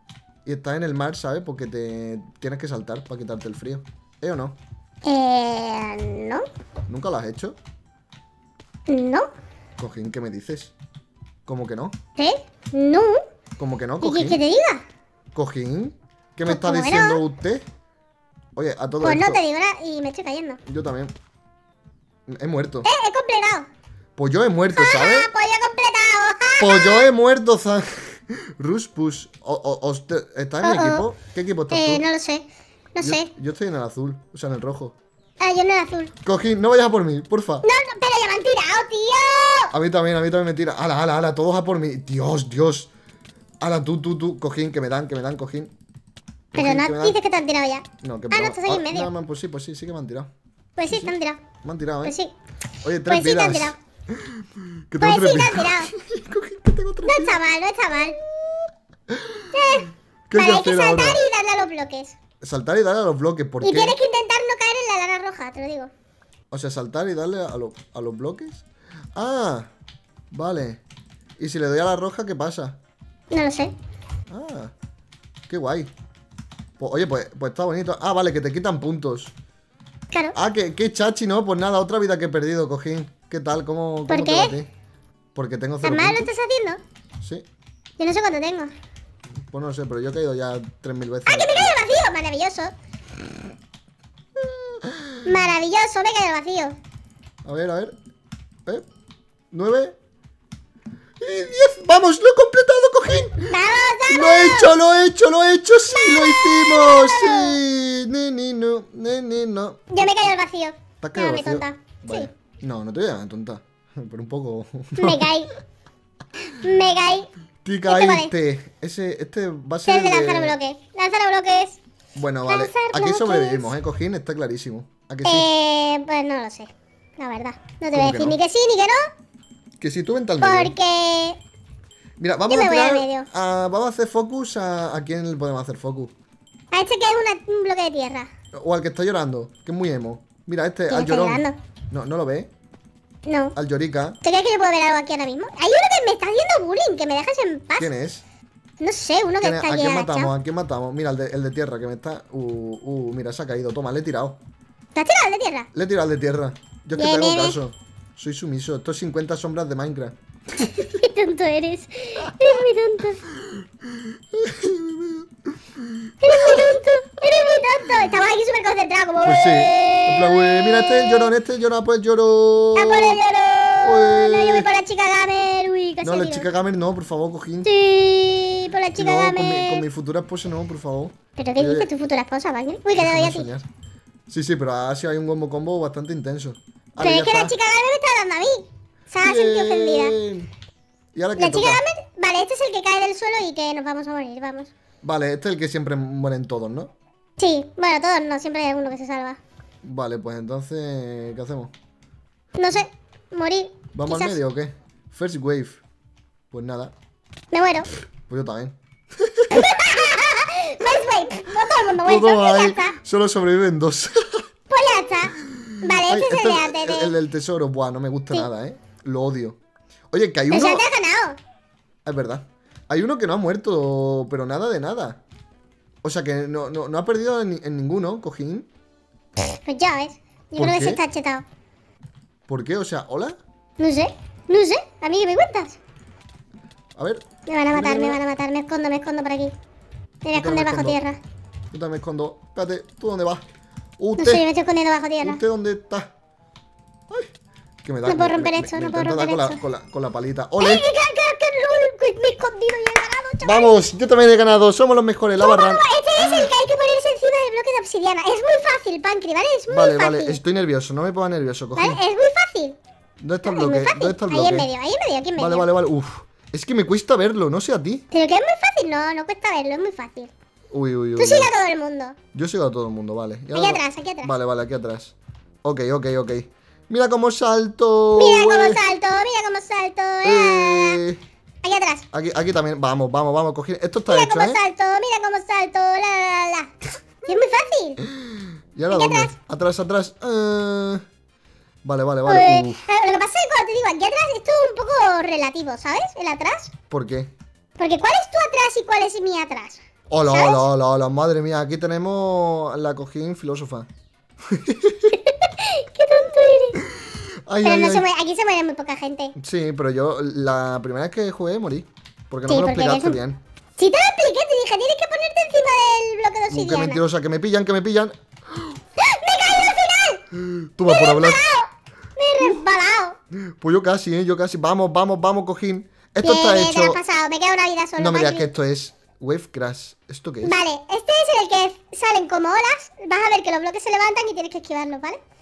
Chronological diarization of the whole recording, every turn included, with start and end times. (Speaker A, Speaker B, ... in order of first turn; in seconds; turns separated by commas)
Speaker A: 0.4-4.6, Speaker B: 5.0-6.4, Speaker A: 6.9-7.6, Speaker B: 8.9-9.3, Speaker A: 9.8-10.7, Speaker A: 11.4-12.0, Speaker B: 12.2-13.2, Speaker A: 13.6-14.4, Speaker B: 14.0-14.8, Speaker A: 15.3-17.6, Speaker B: 16.4-17.2, Speaker A: 18.5-19.4, Speaker B: 19.0-20.6, Speaker A: 20.6-21.1, Speaker A: 22.3-22.9, Speaker B: 22.8-23.7, Speaker A: 24.1-25.3, Speaker B: 24.7-27.0, Speaker A: 26.6-32.0, Speaker B: 30.6-31.0, Speaker B: 31.7-33.3, Speaker A: 33.0-35.0, Speaker B: 35.4-36.1, Speaker A: 36.2-37.6, Speaker B: 37.6-39.7, Speaker A: 39.7-42.9, Speaker A: 43.6-45.7, Speaker A: 46.5-47.2, Speaker B: 46.5-49.1, Speaker A: 48.0-50.3, Speaker B: 50.8-51.4, Speaker A: 50.9-52.1, Speaker B: 52.0-52.3, Speaker A: 52.8-57.4, Speaker B: 53.0-53.8, Speaker B: 55.0-55.9, Speaker B: 57.0-58.2, Speaker A: 59.1-59.5, Speaker B: 59.5-62.1, Speaker A: 60.3-61.2, Speaker A: 62.4-64.0, Speaker B: 63.6-65.9, Speaker A: 66.5-69.7, Speaker A: 70.3-70.8, Speaker A: 71.4-72.8, Speaker B: 73.3-73.7, Speaker A: 74.3-74.7, Speaker A: 75.5-75.9, Speaker A: 76.8-79.3, Speaker A: 80.3-84.7, Speaker B: 84.1-84.5, Speaker A: 85.3-86.3, Speaker B: 85.8-86.8, Speaker B: 88.0-88.7, Speaker A: 89.5-91.8, Speaker B: 91.3-92.7, Speaker A: 94.8-95.3, Speaker B: 95.2-96.7, Speaker A: 97.4-97.9, Speaker A: 99.5-99.9, Speaker A: 101.2-103.6, Speaker B: 103.5-104.7, Speaker A: 104.1-109.9, Speaker B: 105.9-107.6, Speaker B: 109.9-112.3, Speaker A: 111.0-115.3, Speaker B: 115.0-115.5, Speaker B: 116.6-117.3, Speaker A: 117.6-120.6, Speaker B: 117.9-118.3, Speaker B: 119.8-121.8, Speaker A: 122.1-125.5, Speaker B: 122.5-123.7, Speaker B: 125.2-129.0, Speaker A: 127.9-128.4, Speaker A: 129.8-130.7, Speaker B: 130.4-131.4, Speaker A: 132.2-136.1, Speaker B: 132.4-133.3, Speaker B: 136.7-138.3, Speaker A: 138.5-142.5, Speaker B: 140.9-141.6, Speaker B: 143.3-143.5, Speaker A: 143.6-144.2, Speaker B: 144.2-147.9, Speaker A: 147.8-148.2, Speaker B: 148.8-150.3, Speaker A: 149.4-154.4, Speaker B: 154.9-155.7, Speaker A: 155.7-160.8, Speaker B: 157.0-157.6, Speaker B: 160.6-163.2, Speaker A: 164.3-165.3, Speaker A: 166.1-166.8, Speaker B: 166.2-171.3, Speaker A: 169.2-173.2, Speaker B: 172.7-176.5, Speaker A: 173.8-174.7, Speaker A: 176.0-177.7, Speaker B: 177.7-179.8, Speaker A: 179.0-181.9, Speaker B: 181.4-183.5, Speaker A: 182.9-183.7, Speaker A: 184.3-187.6, Speaker B: 187.0-190.2, Speaker A: 189.2-190.5, Speaker A: 191.1-191.8, Speaker B: 191.4-194.7, Speaker A: 195.0-196.9, Speaker B: 197.4-199.4, Speaker A: 199.8-201.7, Speaker B: 202.6-204.4, Speaker A: 203.9-205.8, Speaker A: 206.5-206.9, Speaker B: 207.5-207.9, Speaker A: 208.3-209.7, Speaker B: 209.5-212.9, Speaker A: 212.0-214.4, Speaker B: 214.7-217.1, Speaker A: 215.9-219.6, Speaker A: 220.1-220.8, Speaker B: 220.5-221.4, Speaker A: 222.0-225.2, Speaker A: 226.0-228.7, Speaker B: 229.4-231.4, Speaker A: 230.6-231.0, Speaker A: 232.5-233.4, Speaker B: 233.8-235.8, Speaker A: 237.0-238.2, Speaker B: 237.5-239.5, Speaker B: 240.2-241.2, Speaker A: 240.3-241.0, Speaker A: 241.7-243.4, Speaker A: 244.0-244.4, Speaker B: 244.2-245.4, Speaker A: 245.2-246.1, Speaker A: 247.8-250.8, Speaker B: 248.0-249.6, Speaker B: 250.6-253.8, Speaker A: 253.4-256.5, Speaker B: 255.4-260.4, Speaker A: 259.7-262.0, Speaker B: 261.7-262.8, Speaker A: 263.2-264.7, Speaker B: 263.4-265.7, Speaker A: 265.4-268.0, Speaker B: 268.1-270.3, Speaker A: 270.7-271.5, Speaker B: 271.2-272.1, Speaker A: 272.3-278.8, Speaker B: 273.5-274.3, Speaker B: 278.1-281.0, Speaker A: 280.2-281.2, Speaker B: 281.6-282.0, Speaker A: 282.1-284.6, Speaker B: 284.1-286.7, Speaker B: 287.2-288.0, Speaker A: 288.0-291.0, Speaker B: 288.9-289.3, Speaker A: 291.8-292.8, Speaker B: 292.2-296.7, Speaker A: 296.9-297.3, Speaker B: 297.8-300.6, Speaker A: 300.1-303.9, Speaker A: 304.5-305.1, Speaker B: 305.1-306.8, Speaker A: 306.8-308.1, Speaker B: 307.6-309.3, Speaker A: 309.4-313.4, Speaker B: 312.5-313.2, Speaker B: 313.8-317.0, Speaker A: 316.5-318.1, Speaker B: 319.0-320.2, Speaker A: 320.3-321.4, Speaker B: 320.9-323.2, Speaker A: 323.6-327.0, Speaker B: 326.2-328.5, Speaker A: 328.0-330.6, Speaker B: 330.4-335.2